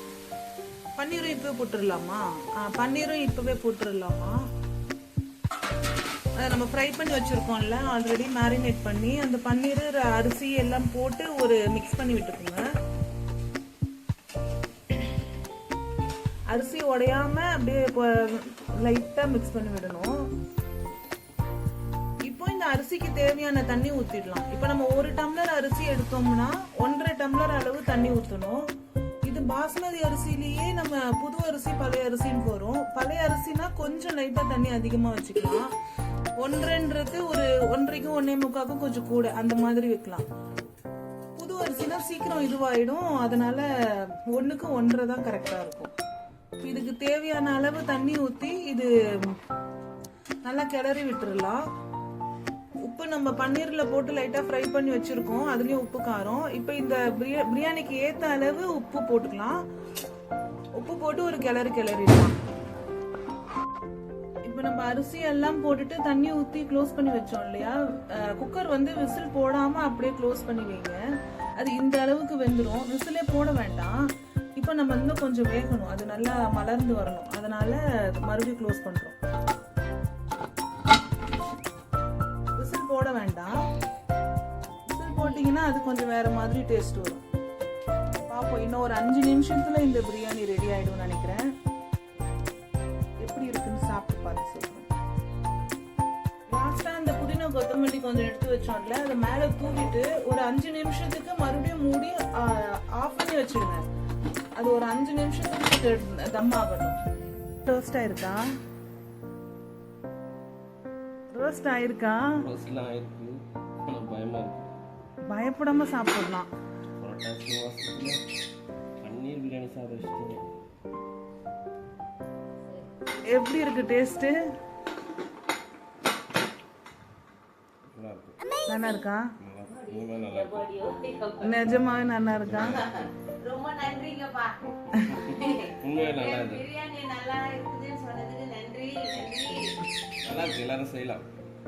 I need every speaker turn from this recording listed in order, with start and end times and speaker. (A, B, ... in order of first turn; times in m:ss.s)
0:01.0-0:04.4 A
0:06.4-0:12.6 A
0:16.5-0:20.2 A
0:22.2-0:28.6 A
0:29.2-0:35.6 A
0:36.4-0:40.2 A
0:41.4-0:45.9 A
0:46.6-0:49.4 A
0:50.4-0:51.6 A
0:52.8-0:59.6 A
1:00.8-1:02.3 A
1:04.4-1:11.0 A
1:11.6-1:14.0 A
1:14.6-1:19.2 A
1:22.5-1:23.7 A
1:24.9-1:27.2 A
1:28.3-1:31.5 A
1:33.2-1:34.9 A
1:36.5-1:43.8 A
1:44.6-1:47.0 A
1:47.6-1:48.4 A
1:51.3-1:52.4 A
1:52.3-1:54.7 B
1:55.3-1:56.5 A
1:57.0-1:58.2 B
1:59.0-2:00.4 B
2:03.2-2:04.4 A
2:07.9-2:08.4 B
2:08.7-2:09.2 A
2:09.4-2:10.7 B
2:09.7-2:11.6 C
2:11.4-2:12.9 A
2:12.4-2:13.0 B
2:12.8-2:14.6 C
2:14.8-2:16.7 B
2:15.2-2:19.8 C
2:20.2-2:21.3 B